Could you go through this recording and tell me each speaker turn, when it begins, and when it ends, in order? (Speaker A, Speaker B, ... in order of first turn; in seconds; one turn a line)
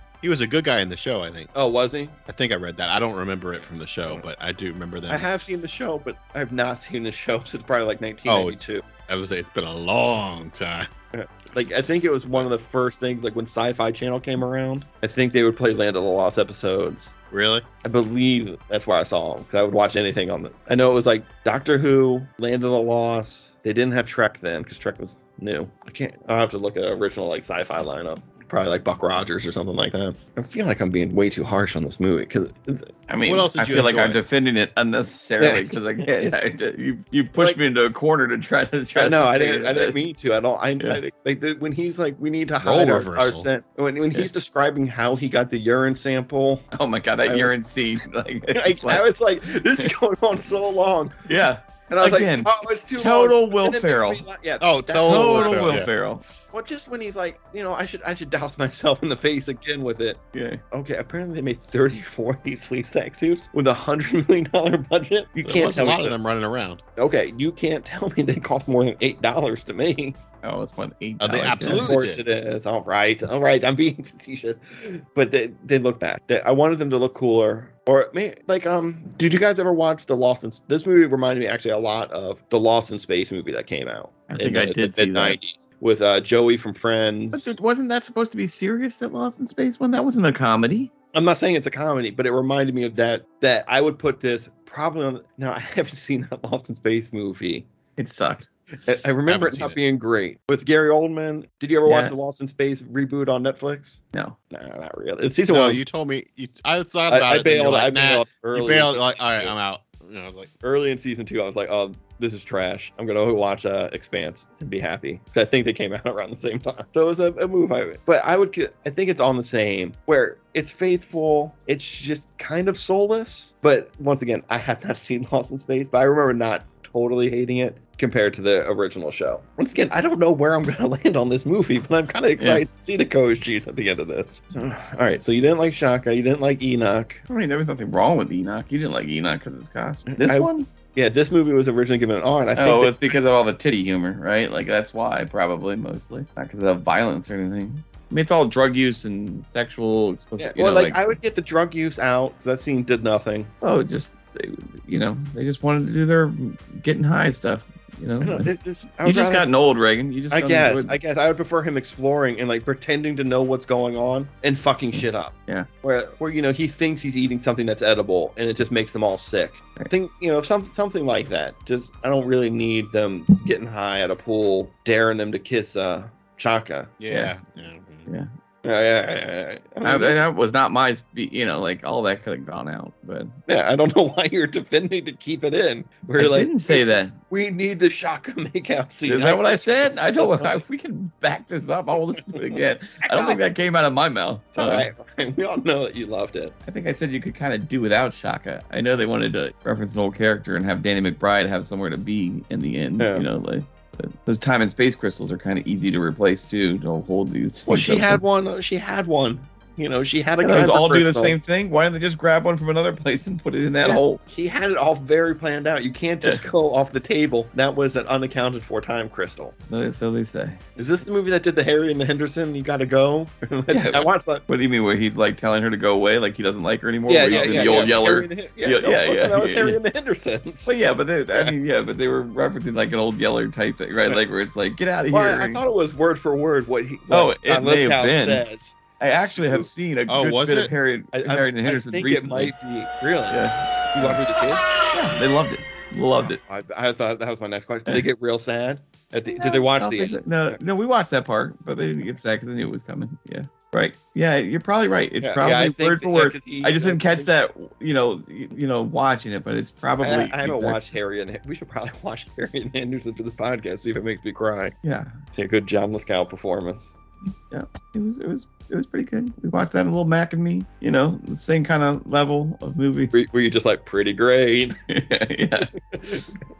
Speaker A: 0.2-1.5
Speaker B: 1.5-2.2
Speaker A: 2.3-5.3
Speaker B: 5.1-8.8
Speaker A: 8.2-10.9
Speaker B: 11.1-17.1
Speaker A: 17.3-17.6
Speaker B: 17.8-32.9
Speaker C: 33.1-40.0
Speaker A: 33.2-34.2
Speaker B: 35.4-36.3
Speaker B: 37.3-37.6
Speaker B: 38.9-46.6
Speaker A: 42.6-43.5
Speaker C: 46.7-49.1
Speaker B: 47.2-47.5
Speaker B: 48.5-51.2
Speaker C: 51.2-54.2
Speaker B: 51.9-55.8
Speaker A: 54.6-55.9
Speaker C: 55.0-56.2
Speaker B: 56.5-60.2
Speaker C: 60.3-60.6
Speaker B: 60.7-66.1
Speaker A: 65.4-66.8
Speaker B: 67.0-70.2
Speaker C: 70.4-72.0
Speaker A: 71.2-72.2
Speaker B: 71.6-87.5
Speaker C: 84.3-85.4
Speaker C: 87.3-90.9
Speaker B: 91.1-97.7
Speaker C: 98.0-98.5
Speaker B: 98.8-105.8
Speaker A: 99.2-99.8
Speaker C: 101.8-102.2
Speaker A: 105.5-110.5
Speaker B: 107.1-109.5
Speaker B: 110.6-137.2
Speaker C: 132.4-132.6
Speaker C: 137.3-140.7
Speaker B: 140.1-143.2
Speaker C: 142.6-151.2
Speaker B: 150.4-153.5
Speaker C: 153.6-158.5
Speaker B: 158.2-159.5
Speaker C: 159.0-161.0
Speaker B: 160.3-176.9
Speaker C: 164.9-165.7
Speaker A: 177.0-178.1
Speaker C: 177.1-177.3
Speaker B: 178.6-180.2
Speaker C: 179.8-183.3
Speaker B: 183.5-190.6
Speaker C: 186.2-187.2
Speaker C: 189.1-194.9
Speaker B: 193.0-193.4
Speaker B: 194.5-196.5
Speaker C: 196.6-208.2
Speaker B: 203.0-203.2
Speaker B: 207.7-211.4
Speaker C: 210.4-214.2
Speaker B: 213.8-219.5
Speaker C: 219.6-220.6
Speaker B: 220.8-224.4
Speaker C: 223.7-229.8
Speaker B: 227.1-230.7
Speaker C: 230.6-235.6
Speaker B: 235.1-238.8
Speaker C: 237.1-238.4
Speaker C: 239.0-242.5
Speaker B: 239.3-239.7
Speaker A: 240.1-240.7
Speaker B: 241.1-244.6
Speaker C: 243.3-244.2
Speaker C: 244.9-246.4
Speaker B: 246.4-250.6
Speaker C: 249.4-260.9
Speaker B: 255.2-257.3
Speaker B: 260.0-264.8
Speaker C: 264.8-265.2
Speaker B: 265.3-266.9
Speaker C: 267.5-273.1
Speaker B: 273.1-274.8
Speaker C: 274.9-275.7
Speaker B: 275.9-276.3